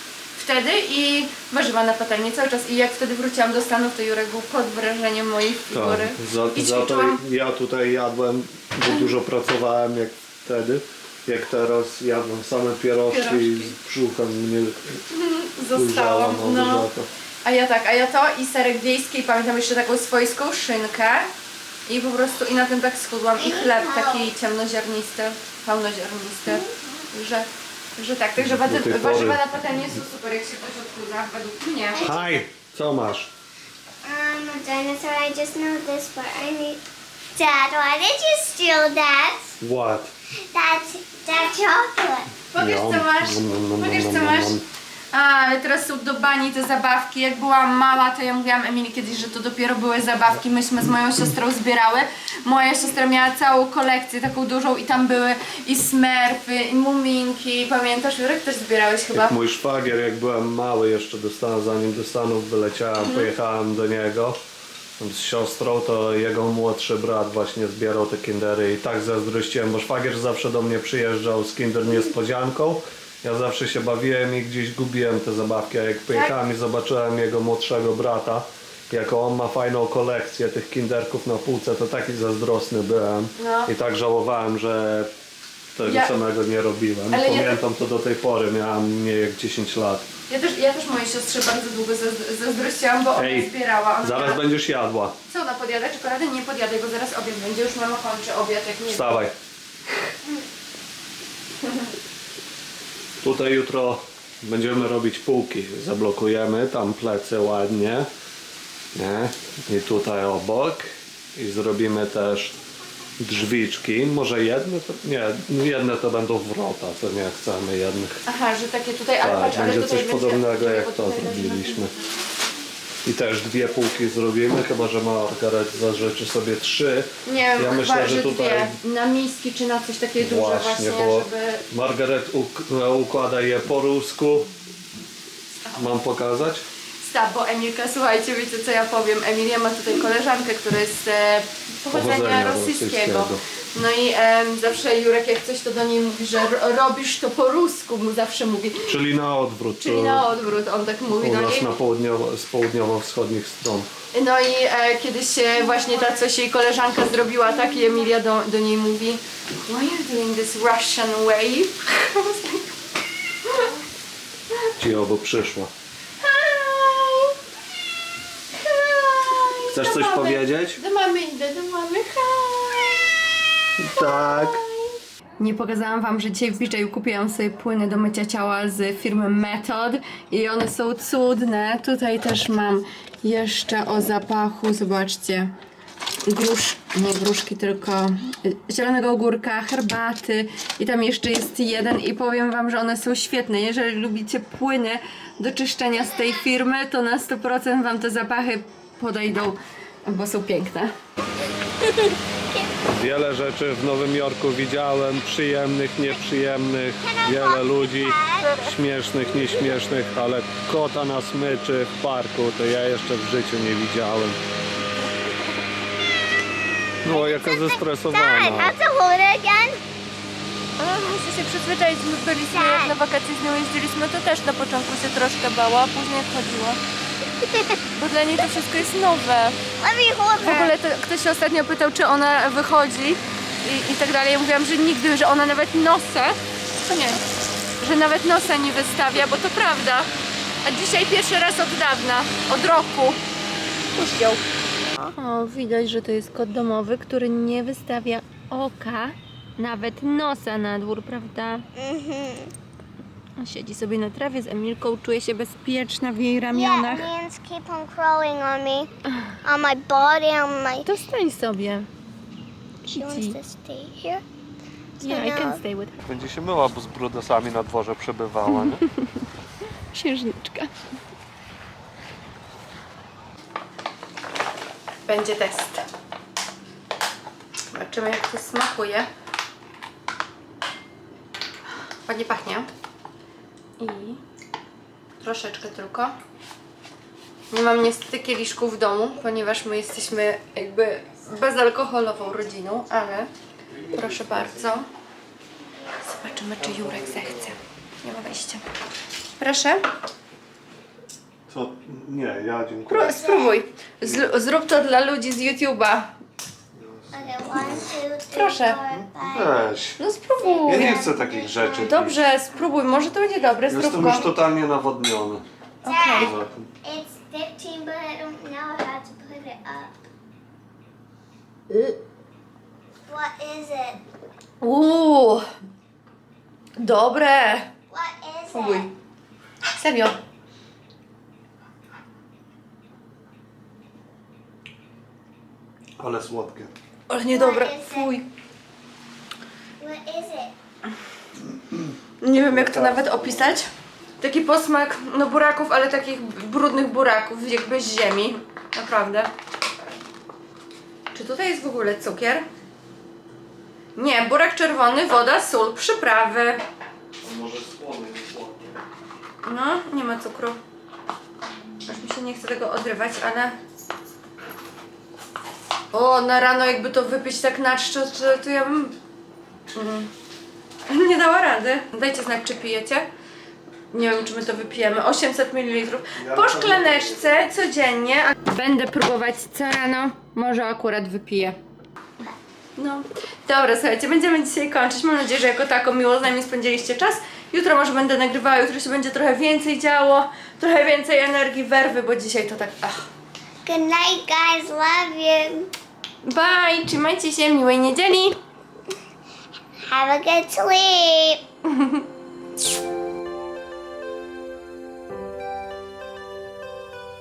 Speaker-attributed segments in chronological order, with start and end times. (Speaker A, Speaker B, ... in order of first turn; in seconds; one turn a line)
Speaker A: 0.3-7.2
Speaker B: 5.7-15.0
Speaker A: 13.1-13.8
Speaker A: 15.1-16.9
Speaker B: 15.7-17.1
Speaker A: 17.4-21.3
Speaker A: 21.9-32.1
Speaker C: 23.4-24.3
Speaker B: 28.4-29.4
Speaker C: 31.9-32.2
Speaker B: 32.0-33.3
Speaker C: 34.0-36.8
Speaker C: 37.4-39.5
Speaker B: 39.6-40.1
Speaker C: 40.5-42.3
Speaker A: 42.5-44.6
Speaker B: 42.5-44.6
Speaker A: 45.1-59.4
Speaker B: 59.1-64.4
Speaker A: 63.0-63.3
Speaker B: 65.0-85.1
Speaker A: 83.4-83.7
Speaker B: 85.8-90.0
Speaker A: 85.9-86.1
Speaker A: 87.1-87.6
Speaker A: 90.3-94.4
Speaker B: 93.2-95.2
Speaker A: 95.3-99.2
Speaker B: 98.9-99.3
Speaker B: 103.2-108.1
Speaker B: 109.0-112.6
Speaker B: 113.2-118.2
Speaker A: 118.3-121.9
Speaker B: 119.2-121.9
Speaker B: 123.0-128.7
Speaker A: 127.3-131.6
Speaker B: 130.2-134.5
Speaker B: 135.7-136.6
Speaker A: 137.0-148.9
Speaker B: 141.9-143.4
Speaker B: 148.9-150.3
Speaker A: 149.8-151.7
Speaker B: 151.1-153.9
Speaker A: 154.1-162.7
Speaker A: 163.4-163.7
Speaker B: 164.8-165.7
Speaker A: 166.2-167.3
Speaker A: 168.6-173.1
Speaker B: 169.7-170.8
Speaker B: 173.8-174.6
Speaker A: 174.0-185.5
Speaker A: 186.3-200.9
Speaker B: 202.9-214.4
Speaker C: 207.0-208.5
Speaker A: 208.4-208.7
Speaker B: 217.0-218.8
Speaker C: 217.1-219.8
Speaker A: 220.8-226.8
Speaker C: 222.5-222.9
Speaker C: 227.4-227.8
Speaker A: 227.9-229.6
Speaker C: 229.8-230.7
Speaker A: 230.4-237.2
Speaker A: 237.8-240.1
Speaker A: 240.6-243.2
Speaker A: 243.9-244.4
Speaker A: 245.1-251.7
Speaker C: 251.8-252.5
Speaker A: 253.4-257.1
Speaker C: 256.5-258.9
Speaker A: 259.1-259.3
Speaker C: 259.4-260.9
Speaker A: 260.8-261.9
Speaker C: 262.9-264.2
Speaker A: 262.9-263.4
Speaker C: 265.0-265.6
Speaker A: 265.0-266.1
Speaker B: 266.1-268.9
Speaker A: 268.5-269.0
Speaker A: 269.9-270.8
Speaker A: 275.1-275.8
Speaker A: 277.7-279.1
Speaker A: 282.1-282.7
Speaker A: 283.8-284.2
Speaker A: 285.2-286.1
Speaker A: 287.5-293.3
Speaker B: 293.8-294.6
Speaker A: 293.9-294.9
Speaker A: 296.0-298.6
Speaker B: 296.6-297.4
Speaker A: 299.4-299.8
Speaker B: 301.5-303.2
Speaker A: 302.9-306.1
Speaker C: 303.1-303.6
Speaker B: 306.8-307.9
Speaker C: 307.1-309.6
Speaker A: 308.3-308.8
Speaker B: 309.0-310.0
Speaker A: 310.0-314.3
Speaker C: 310.4-311.9
Speaker B: 310.7-312.2
Speaker B: 313.7-315.4
Speaker A: 315.8-316.4
Speaker C: 315.8-319.9
Speaker B: 316.2-316.7
Speaker C: 323.1-324.0
Speaker A: 324.6-325.4
Speaker A: 326.8-327.7
Speaker C: 327.9-328.9
Speaker A: 328.5-328.9
Speaker A: 329.7-330.2
Speaker B: 336.0-336.7
Speaker A: 337.1-338.3
Speaker C: 337.3-338.1
Speaker C: 339.8-340.5
Speaker A: 342.2-343.7
Speaker B: 342.4-343.6
Speaker A: 344.2-349.3
Speaker A: 351.1-352.4
Speaker A: 354.0-356.6
Speaker B: 357.2-358.8
Speaker A: 359.4-360.6
Speaker A: 361.9-363.5
Speaker A: 365.9-369.0
Speaker A: 369.7-370.1
Speaker A: 370.9-373.1
Speaker A: 373.9-381.6
Speaker B: 376.2-377.3
Speaker A: 382.8-393.1
Speaker C: 393.6-395.7
Speaker A: 396.2-398.4
Speaker C: 399.9-401.4
Speaker A: 401.7-402.0